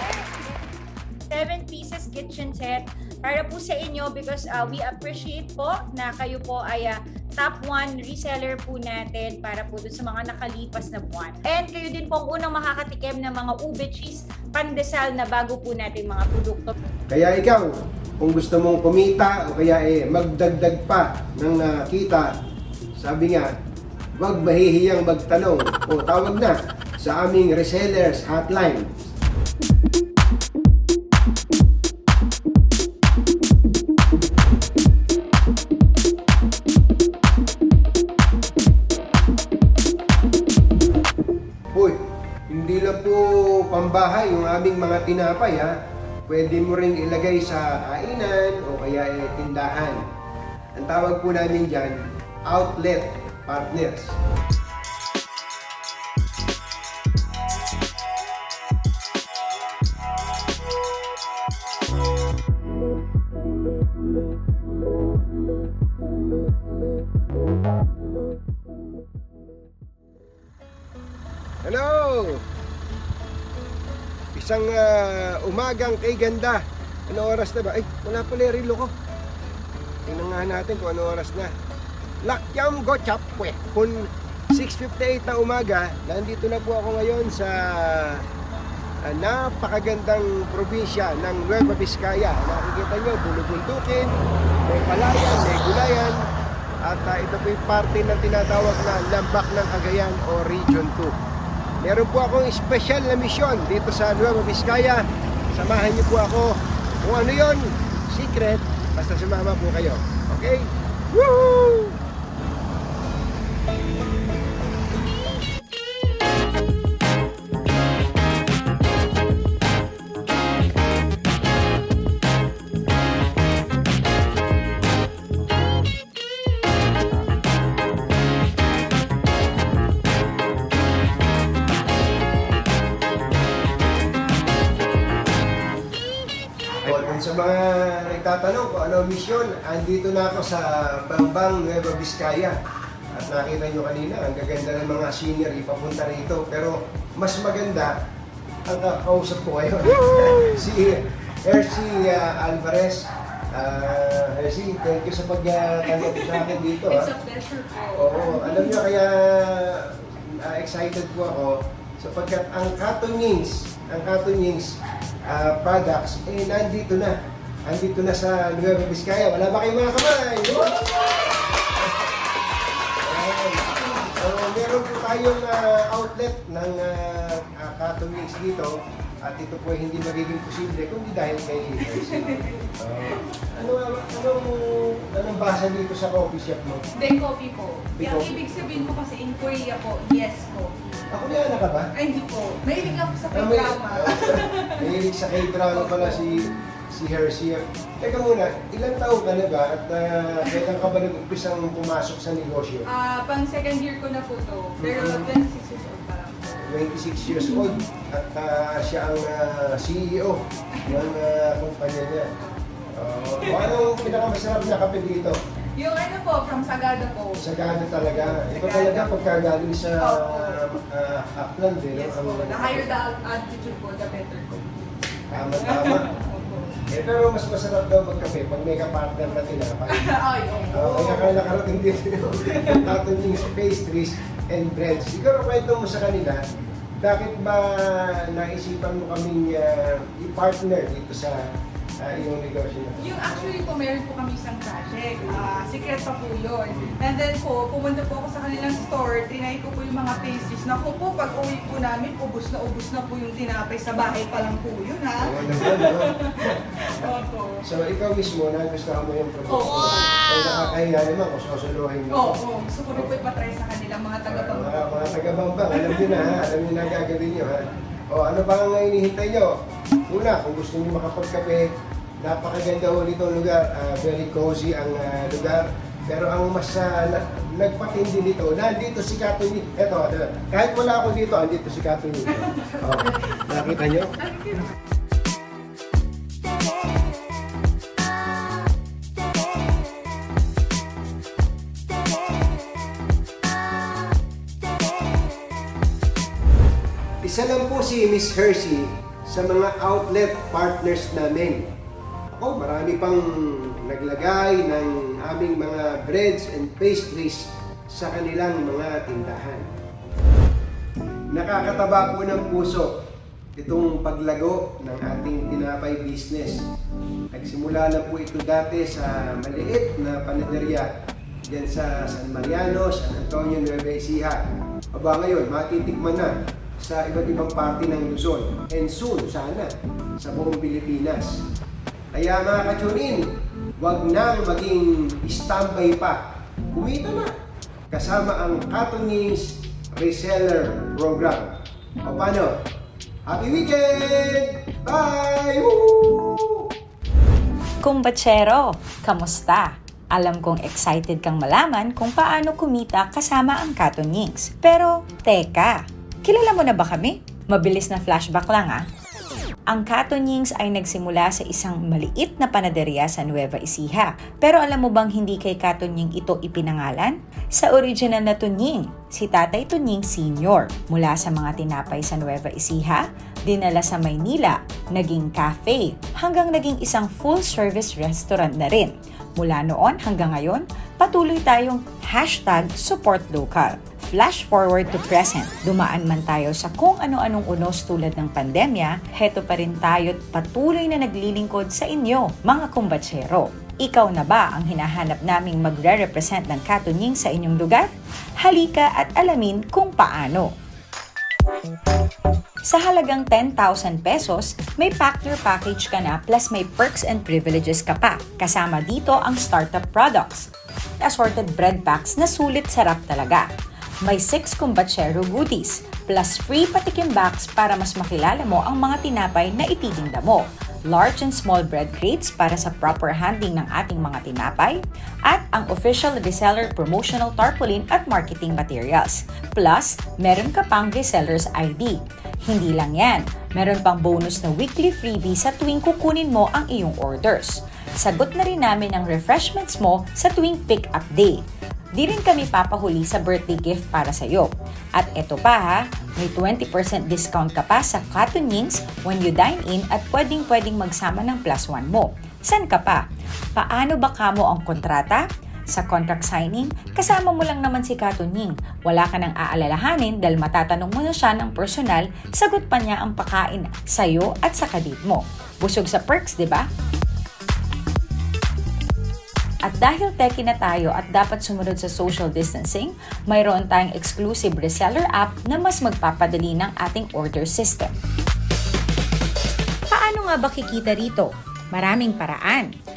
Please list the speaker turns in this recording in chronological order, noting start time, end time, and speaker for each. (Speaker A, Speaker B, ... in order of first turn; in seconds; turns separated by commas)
Speaker A: 1.3-16.7, Speaker B: 17.1-17.7, Speaker B: 18.2-22.3, Speaker B: 23.0-23.5, Speaker B: 24.2-28.9, Speaker B: 42.5-45.7, Speaker B: 46.3-50.0, Speaker B: 50.8-52.0, Speaker B: 52.5-54.1, Speaker B: 71.6-72.4, Speaker B: 74.3-78.9, Speaker B: 80.0-81.5, Speaker B: 82.2-88.2, Speaker B: 89.0-94.1, Speaker B: 94.7-96.2, Speaker B: 96.8-101.1, Speaker B: 101.8-112.0, Speaker B: 136.8-142.6, Speaker B: 143.1-147.9, Speaker B: 148.7-157.1, Speaker C: 156.8-158.8, Speaker B: 157.9-164.7, Speaker B: 165.3-167.1, Speaker B: 167.7-170.9, Speaker B: 171.8-172.1, Speaker B: 173.0-178.7, Speaker B: 179.2-186.8, Speaker C: 181.8-182.6, Speaker C: 187.0-190.7, Speaker B: 188.0-188.9, Speaker B: 191.1-191.9, Speaker C: 191.9-194.8, Speaker B: 193.3-202.9, Speaker C: 195.7-196.3, Speaker C: 202.9-206.6, Speaker B: 204.8-205.3, Speaker B: 206.6-212.3, Speaker B: 212.9-215.4, Speaker C: 213.4-214.2, Speaker C: 215.8-219.3, Speaker B: 217.4-222.9, Speaker C: 220.0-220.6, Speaker C: 221.9-224.9, Speaker B: 225.3-226.1, Speaker C: 225.5-226.7, Speaker B: 226.9-230.1, Speaker C: 229.9-231.3, Speaker B: 230.7-236.4, Speaker B: 237.0-241.3, Speaker B: 242.0-243.5, Speaker C: 243.0-256.3, Speaker B: 255.2-257.1, Speaker C: 256.8-257.6, Speaker B: 257.6-262.4, Speaker C: 259.5-260.2, Speaker C: 262.1-266.3, Speaker B: 264.3-269.5, Speaker B: 270.1-271.7, Speaker B: 272.2-284.1, Speaker B: 297.2-301.7, Speaker B: 302.3-309.6, Speaker B: 311.3-312.9, Speaker B: 313.6-316.6, Speaker B: 317.3-320.9, Speaker B: 321.5-331.4, Speaker B: 332.1-333.2, Speaker B: 333.8-337.3, Speaker B: 337.9-342.6, Speaker B: 343.3-346.7, Speaker A: 347.8-358.9, Speaker A: 359.7-397.9, Speaker A: 398.4-400.5, Speaker A: 402.6-413.5, Speaker A: 414.0-441.4, Speaker A: 441.9-453.0, Speaker A: 453.6-466.7, Speaker A: 469.6-477.9, Speaker A: 479.9-482.7